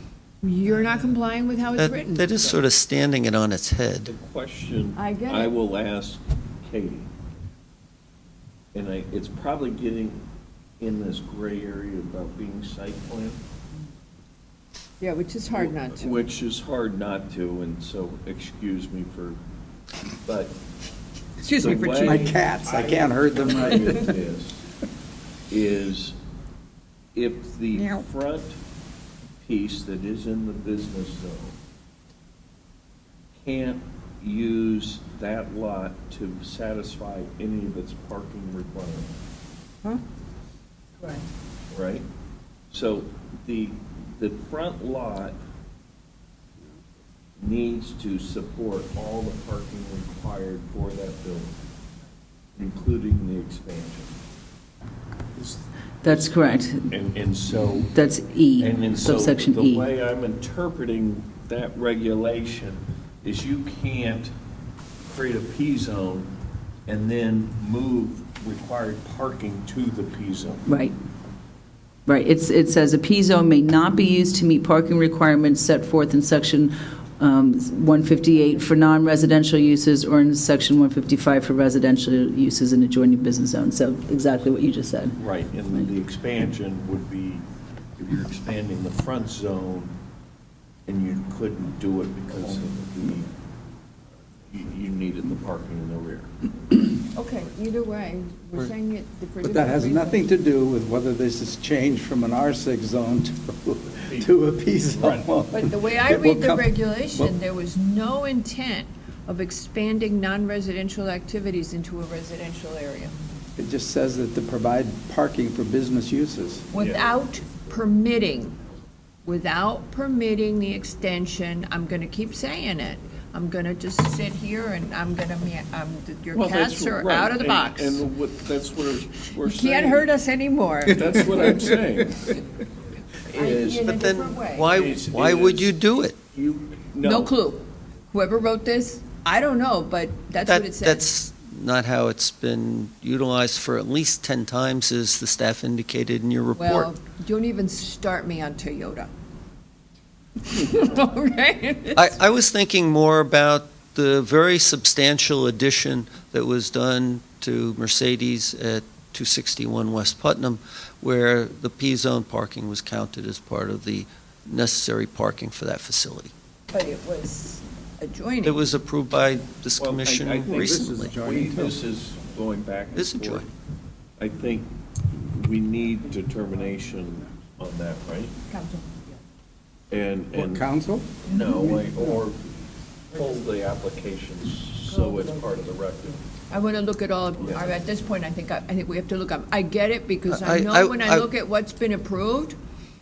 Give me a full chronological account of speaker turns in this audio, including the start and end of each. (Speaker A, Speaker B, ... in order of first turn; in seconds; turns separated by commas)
Speaker A: 0.4-2.5, Speaker B: 1.8-4.1, Speaker C: 4.0-7.1, Speaker A: 4.9-5.5, Speaker C: 8.7-10.2, Speaker C: 10.8-13.4, Speaker A: 15.0-16.2, Speaker C: 15.5-19.4, Speaker C: 20.2-20.6, Speaker A: 21.4-22.9, Speaker C: 21.5-24.6, Speaker D: 22.0-24.1, Speaker A: 23.5-24.0, Speaker C: 25.5-26.2, Speaker C: 27.1-28.6, Speaker A: 27.8-28.0, Speaker C: 29.4-31.6, Speaker C: 33.4-39.2, Speaker C: 41.7-42.1, Speaker C: 42.7-45.4, Speaker C: 47.4-51.5, Speaker C: 52.5-54.1, Speaker C: 55.4-58.0, Speaker E: 56.0-56.9, Speaker E: 57.9-59.9, Speaker C: 58.6-64.3, Speaker C: 65.0-66.3, Speaker C: 66.9-70.6, Speaker E: 70.7-71.0, Speaker E: 72.0-85.2, Speaker C: 85.2-87.5, Speaker C: 88.0-90.0, Speaker C: 90.9-93.3, Speaker C: 94.5-96.3, Speaker A: 97.1-100.3, Speaker D: 99.4-107.3, Speaker C: 104.0-105.3, Speaker A: 105.5-113.2, Speaker D: 113.6-116.7, Speaker A: 116.7-118.6, Speaker C: 116.7-117.1, Speaker A: 119.2-128.0, Speaker C: 126.3-130.1, Speaker A: 129.4-131.3, Speaker C: 130.9-132.4, Speaker C: 133.3-134.0, Speaker A: 133.3-134.8, Speaker B: 133.9-136.2, Speaker C: 134.7-135.8, Speaker C: 136.3-137.3, Speaker A: 137.0-141.0, Speaker B: 140.4-146.9, Speaker A: 146.5-149.1, Speaker A: 150.4-152.2, Speaker B: 151.9-166.3, Speaker A: 166.7-168.6, Speaker B: 168.4-171.1, Speaker C: 169.8-173.5, Speaker D: 170.5-171.8, Speaker B: 172.9-173.5, Speaker C: 174.2-178.3, Speaker A: 178.5-178.9, Speaker C: 179.9-180.6, Speaker D: 180.3-181.3, Speaker C: 181.2-182.5, Speaker C: 183.1-186.2, Speaker A: 186.5-192.6, Speaker C: 187.4-187.7, Speaker B: 190.3-191.3